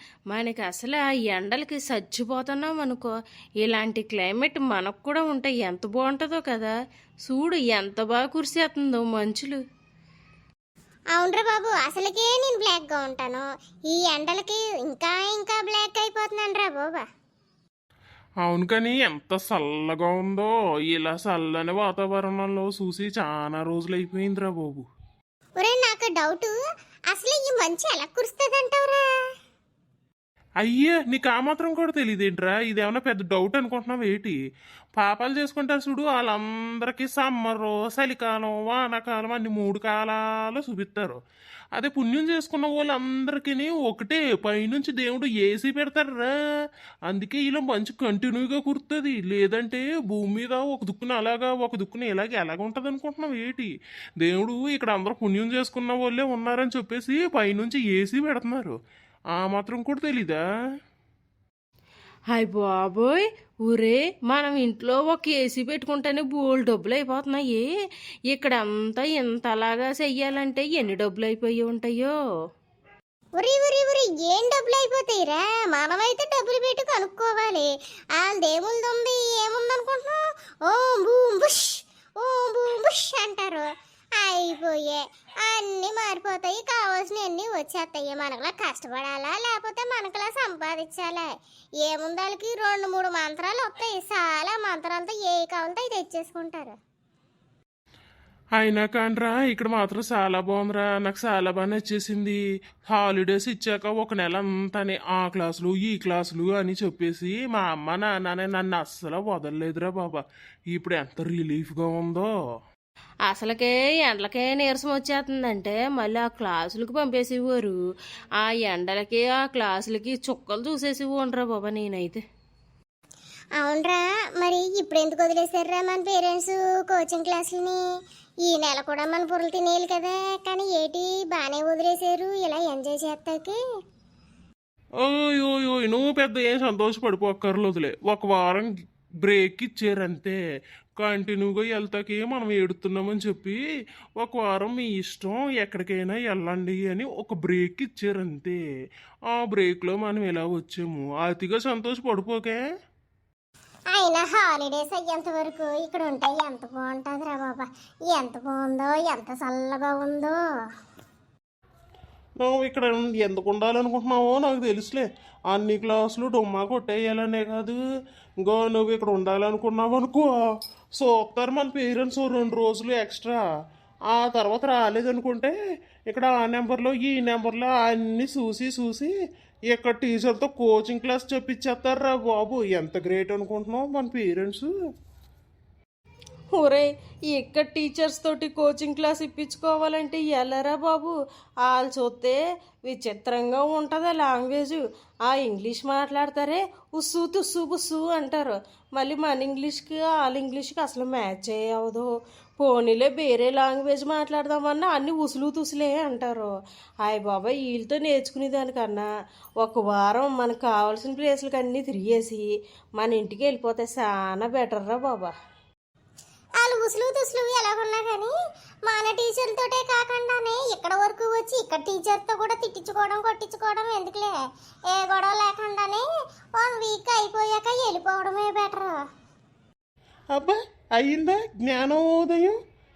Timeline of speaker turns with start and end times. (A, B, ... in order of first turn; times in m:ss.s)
0:00.3-0:03.1 A
0:03.6-0:06.7 A
0:07.2-0:09.6 A
0:11.1-0:17.0 B
0:18.4-0:24.9 C
0:25.6-0:26.5 B
0:27.1-0:29.0 B
0:30.6-0:34.4 C
0:35.0-0:41.2 C
0:41.8-0:46.3 C
0:47.1-0:53.7 C
0:54.2-0:58.8 C
0:59.3-1:00.4 C
1:02.3-1:07.7 A
1:08.3-1:12.2 A
1:13.4-1:31.3 B
1:31.8-1:36.8 B
1:38.6-1:52.3 C
1:53.3-1:57.8 A
1:58.4-2:02.2 A
2:03.6-2:07.8 B
2:08.5-2:13.6 B
2:15.0-2:18.7 C
2:19.2-2:20.4 C
2:21.0-2:23.6 C
2:24.2-2:28.6 C
2:29.3-2:32.6 C
2:33.9-2:40.4 B
2:42.4-2:47.8 C
2:48.4-2:50.3 C
2:51.0-2:53.4 C
2:54.1-2:55.5 C
2:56.1-2:59.1 C
2:59.7-3:04.7 C
3:06.5-3:22.1 A
3:22.6-3:26.5 A
3:27.0-3:29.1 A
3:29.6-3:35.3 A
3:36.6-3:38.3 B
3:38.9-3:44.3 B
3:44.9-3:49.0 B
3:50.3-3:52.6 C